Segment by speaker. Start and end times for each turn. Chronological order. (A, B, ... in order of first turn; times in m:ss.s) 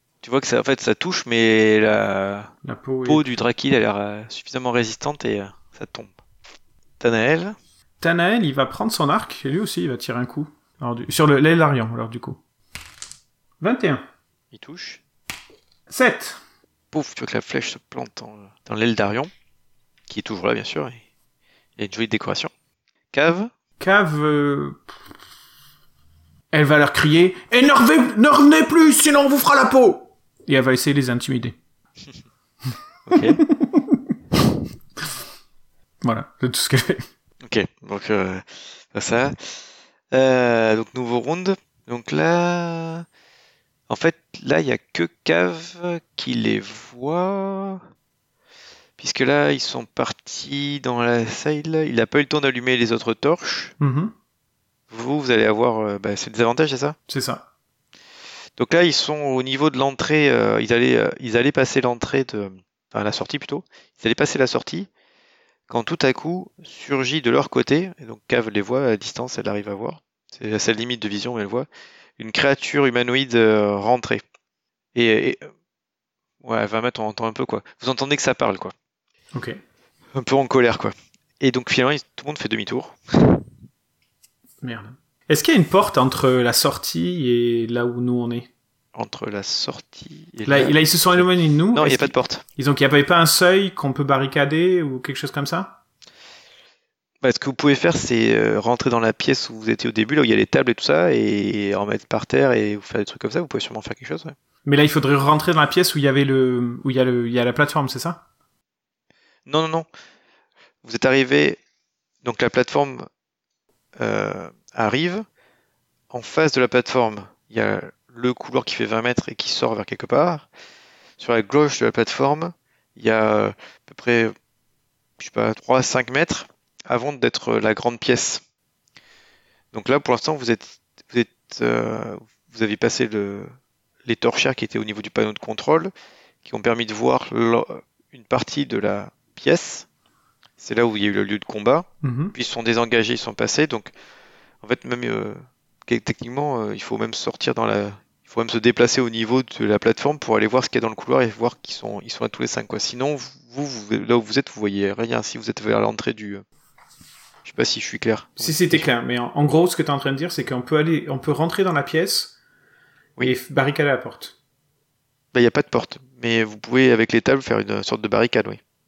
0:00.2-0:02.5 A
0:02.6-0:03.2 B
0:03.0-0:06.2 A
0:07.0-0:07.6 A
0:08.0-0:12.4 B
0:13.6-0:14.0 B
0:14.5-0:15.0 A
0:15.9-0:16.4 B
0:16.9-0:19.3 A
0:20.1-0:21.0 A
0:21.8-0:22.5 A
0:23.1-0:23.5 A
0:23.8-0:24.8 B
0:26.5-0:31.6 B
0:33.1-0:33.4 A
0:33.1-0:34.4 B
0:36.0-0:37.0 B
0:37.4-0:43.0 A
0:43.9-0:47.8 A
0:49.0-0:53.7 A
0:53.8-0:54.1 B
0:54.9-0:57.0 A
0:57.1-0:57.4 B
0:58.6-1:04.9 A
1:05.7-1:11.7 A
1:12.2-1:14.2 A
1:14.9-1:15.5 A
1:16.4-1:18.7 A
1:19.3-1:19.6 B
1:20.1-1:23.4 A
1:24.6-1:28.5 B
1:28.9-1:32.4 A
1:30.4-1:35.8 B
1:37.2-1:44.3 A
1:44.6-1:48.2 B
1:49.4-1:49.9 A
1:50.8-1:51.6 A
1:52.2-1:53.1 A
1:54.0-1:55.2 A
1:56.1-2:00.5 A
2:01.2-2:04.3 A
2:05.2-2:08.4 A
2:09.7-2:13.5 A
2:14.0-2:15.9 A
2:16.4-2:19.9 A
2:20.6-2:23.9 A
2:22.0-2:22.3 B
2:24.6-2:36.4 A
2:37.4-2:38.9 A
2:38.4-2:42.3 B
2:43.2-2:44.3 B
2:45.3-2:48.6 A